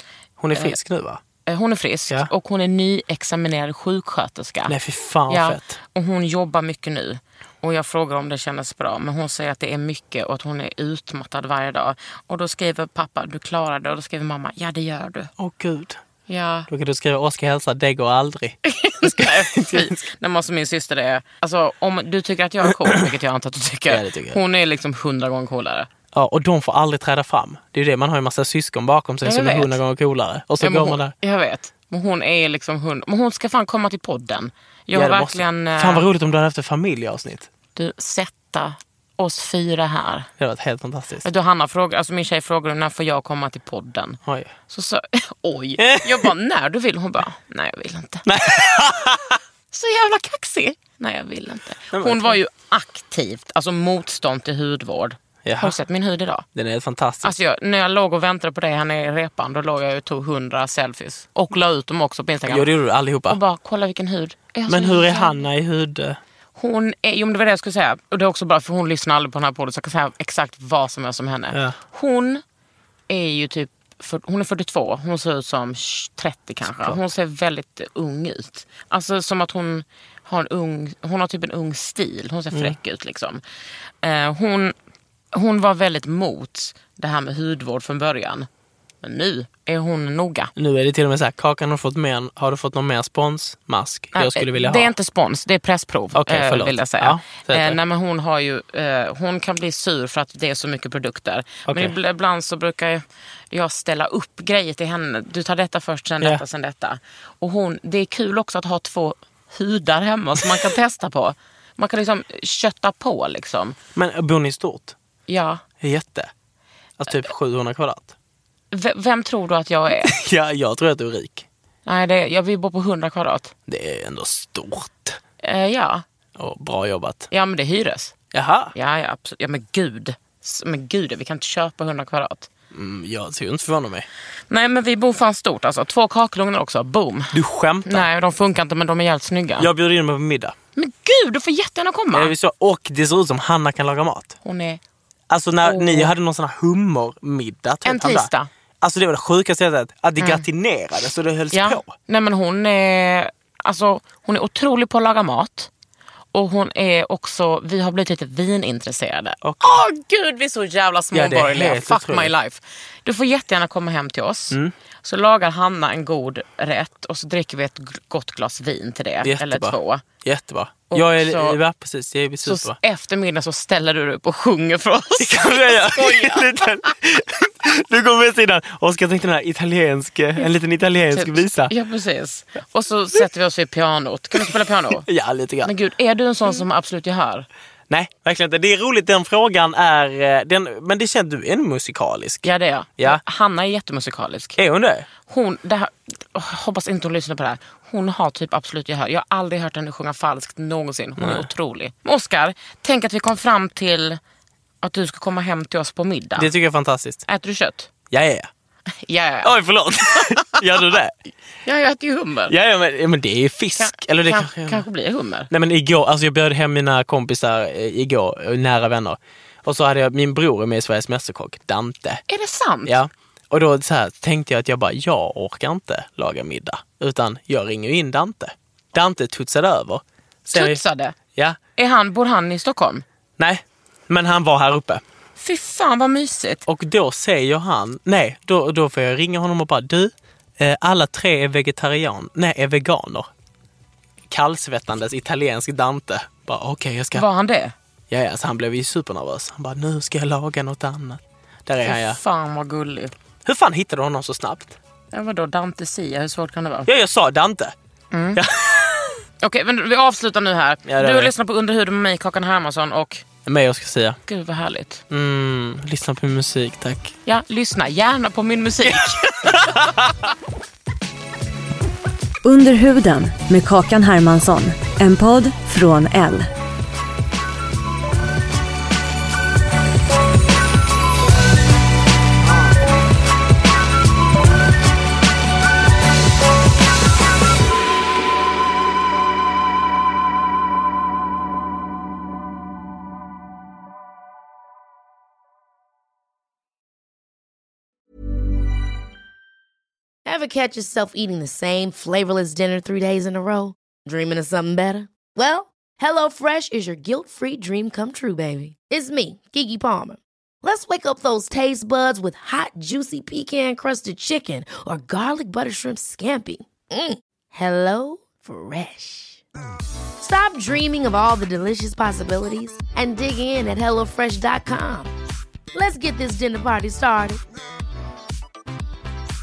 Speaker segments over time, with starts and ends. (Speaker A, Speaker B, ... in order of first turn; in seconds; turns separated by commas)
Speaker A: 0.4-1.2, Speaker B: 0.5-0.8, Speaker B: 1.5-4.8, Speaker A: 4.7-5.8, Speaker B: 5.3-15.3, Speaker A: 15.4-16.0, Speaker B: 16.3-16.7, Speaker A: 16.7-20.0, Speaker B: 18.7-25.9, Speaker A: 22.6-23.0, Speaker A: 23.9-24.4, Speaker A: 26.1-31.1, Speaker B: 29.2-29.8, Speaker B: 30.6-36.1, Speaker A: 34.9-37.5, Speaker B: 37.8-40.3, Speaker A: 40.4-41.3, Speaker B: 41.2-48.2, Speaker A: 44.3-44.5, Speaker A: 45.8-46.3, Speaker A: 48.2-49.4, Speaker B: 49.7-56.5, Speaker A: 51.9-52.4, Speaker A: 55.5-55.8, Speaker A: 56.5-57.4, Speaker B: 57.2-62.7, Speaker A: 62.5-63.4, Speaker B: 63.3-65.4, Speaker A: 64.7-66.2, Speaker B: 66.6-72.4, Speaker B: 73.1-83.4, Speaker A: 76.6-77.0, Speaker B: 84.0-84.7, Speaker B: 85.3-88.5, Speaker B: 89.0-90.5, Speaker A: 90.6-94.9, Speaker B: 94.1-113.8, Speaker A: 96.2-97.8, Speaker A: 101.7-101.9, Speaker A: 114.0-115.0, Speaker B: 115.3-115.6, Speaker A: 115.8-116.3, Speaker A: 117.0-118.1, Speaker B: 118.7-120.2, Speaker A: 120.0-121.5, Speaker B: 121.9-123.5, Speaker A: 123.7-125.2, Speaker B: 125.4-126.0, Speaker A: 126.4-127.3, Speaker B: 127.3-128.2, Speaker A: 128.3-128.7, Speaker B: 128.8-132.5, Speaker A: 132.7-134.1, Speaker B: 134.5-139.7, Speaker A: 137.3-138.1, Speaker A: 139.6-140.6, Speaker B: 140.8-142.3, Speaker A: 142.1-144.4, Speaker B: 144.4-144.8, Speaker A: 145.3-151.9, Speaker B: 145.6-146.1, Speaker B: 147.8-148.5, Speaker B: 150.2-150.5, Speaker B: 151.5-155.7, Speaker B: 156.3-170.0, Speaker A: 159.4-159.7, Speaker A: 161.1-162.3, Speaker A: 169.2-172.8, Speaker B: 170.9-171.6, Speaker B: 172.4-176.9, Speaker A: 175.2-181.7, Speaker B: 181.1-185.1, Speaker A: 184.3-185.7, Speaker B: 185.6-187.5, Speaker A: 187.9-193.2, Speaker B: 192.4-194.6, Speaker A: 194.6-195.1, Speaker B: 195.3-204.2, Speaker A: 201.2-201.5, Speaker B: 204.8-206.5, Speaker A: 206.4-207.3, Speaker B: 207.3-207.9, Speaker A: 208.1-208.5, Speaker B: 209.1-210.6, Speaker A: 209.4-211.1, Speaker B: 211.7-212.5, Speaker A: 212.5-214.8, Speaker B: 213.8-215.5, Speaker A: 215.5-222.2, Speaker B: 222.3-223.0, Speaker A: 222.9-230.8, Speaker B: 230.5-231.2, Speaker B: 231.8-233.0, Speaker A: 233.4-235.0, Speaker B: 235.4-236.6, Speaker A: 236.7-243.3, Speaker A: 244.3-247.3, Speaker B: 247.1-247.7, Speaker A: 248.1-252.2, Speaker B: 251.8-253.1, Speaker A: 253.4-254.8, Speaker B: 255.1-256.9, Speaker A: 256.9-257.7, Speaker B: 258.1-258.4, Speaker A: 258.3-259.2, Speaker B: 259.4-263.2, Speaker A: 260.9-261.3, Speaker A: 263.4-264.2, Speaker B: 264.3-265.0, Speaker A: 265.1-267.1, Speaker B: 267.3-269.9, Speaker A: 268.9-270.1, Speaker C: 272.4-276.5, Speaker D: 300.2-319.4, Speaker D: 320.2-325.1, Speaker D: 325.7-327.4